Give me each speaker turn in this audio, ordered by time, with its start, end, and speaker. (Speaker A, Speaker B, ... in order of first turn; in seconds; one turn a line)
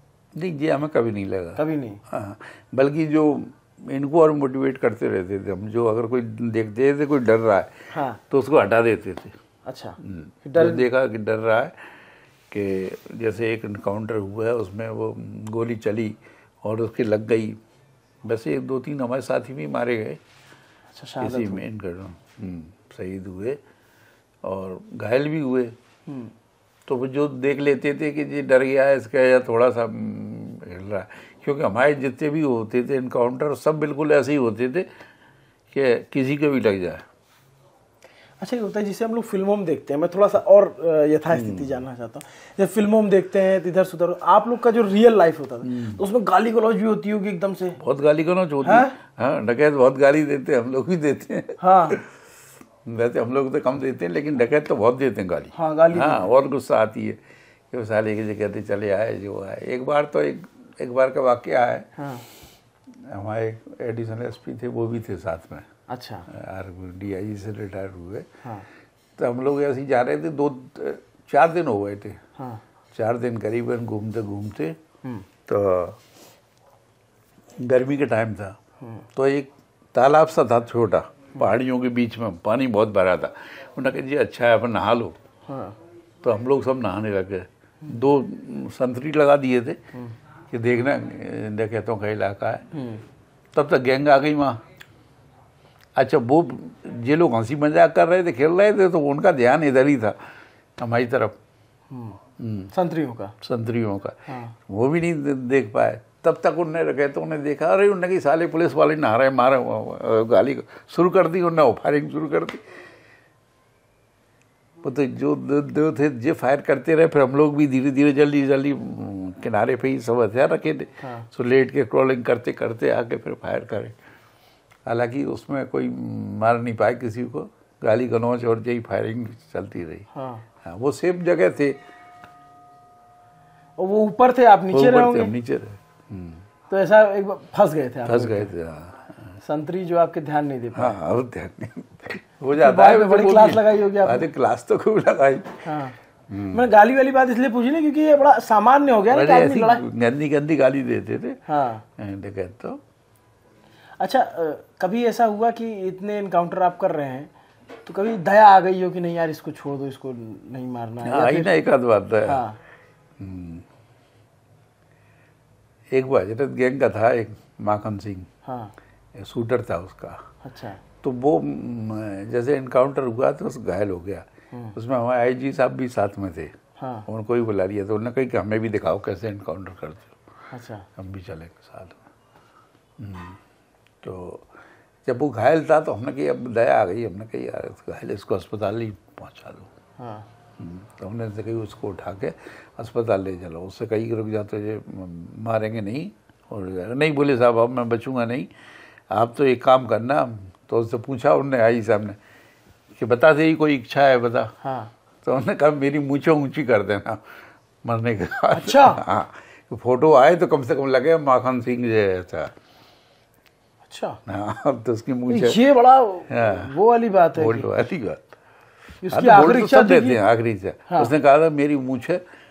Speaker A: 0.3-9.3
Speaker B: 1.6-2.0
Speaker B: 7.9-8.2
Speaker B: 9.7-10.9
Speaker A: 10.0-11.9
Speaker A: 12.5-17.6
Speaker A: 18.2-20.2
Speaker B: 20.9-21.6
Speaker A: 21.2-23.6
Speaker A: 24.4-25.8
Speaker B: 26.1-26.3
Speaker A: 26.9-34.9
Speaker A: 35.7-37.0
Speaker B: 38.4-47.8
Speaker A: 41.3-41.8
Speaker A: 45.6-46.0
Speaker A: 47.8-52.2
Speaker B: 48.6-49.0
Speaker B: 51.6-52.0
Speaker A: 52.8-57.2
Speaker B: 55.5-56.3
Speaker A: 57.7-61.9
Speaker B: 62.0-62.2
Speaker A: 63.0-65.7
Speaker B: 65.9-66.3
Speaker A: 66.3-68.3
Speaker A: 69.2-72.2
Speaker A: 72.9-74.8
Speaker A: 75.5-76.0
Speaker A: 77.6-78.6
Speaker A: 79.1-85.2
Speaker B: 85.5-85.8
Speaker A: 86.2-89.8
Speaker A: 90.5-92.7
Speaker B: 92.7-93.0
Speaker A: 93.5-94.6
Speaker A: 96.0-100.2
Speaker A: 100.8-101.4
Speaker B: 101.9-102.2
Speaker A: 102.4-102.7
Speaker B: 102.7-103.3
Speaker A: 103.4-112.8
Speaker B: 104.3-104.6
Speaker A: 114.8-124.0
Speaker B: 121.0-121.3
Speaker A: 124.9-130.1
Speaker B: 130.1-130.5
Speaker A: 130.6-131.8
Speaker B: 133.8-135.3
Speaker A: 134.7-136.4
Speaker B: 136.7-138.5
Speaker A: 138.1-139.2
Speaker B: 139.4-141.0
Speaker A: 140.7-145.7
Speaker B: 142.5-144.3
Speaker B: 145.7-146.0
Speaker A: 146.3-146.7
Speaker B: 146.5-149.8
Speaker A: 149.1-151.4
Speaker B: 151.5-151.8
Speaker A: 152.0-152.8
Speaker B: 154.0-157.3
Speaker B: 157.8-161.5
Speaker A: 161.1-162.4
Speaker B: 162.3-162.6
Speaker A: 163.2-163.7
Speaker A: 165.9-168.3
Speaker B: 168.4-168.7
Speaker A: 169.2-170.2
Speaker B: 170.4-170.8
Speaker A: 171.0-176.6
Speaker B: 176.8-177.1
Speaker A: 177.1-180.2
Speaker B: 180.5-180.9
Speaker A: 181.0-182.0
Speaker A: 183.0-183.4
Speaker A: 184.0-184.5
Speaker A: 185.1-189.7
Speaker B: 190.0-190.3
Speaker A: 190.6-198.5
Speaker A: 199.1-202.2
Speaker A: 203.0-204.5
Speaker B: 204.6-204.9
Speaker A: 205.2-207.3
Speaker A: 207.8-212.5
Speaker B: 208.5-209.0
Speaker B: 213.9-214.2
Speaker A: 214.3-215.6
Speaker B: 215.3-217.7
Speaker A: 216.3-216.7
Speaker A: 217.3-218.3
Speaker B: 219.0-220.2
Speaker A: 219.1-222.2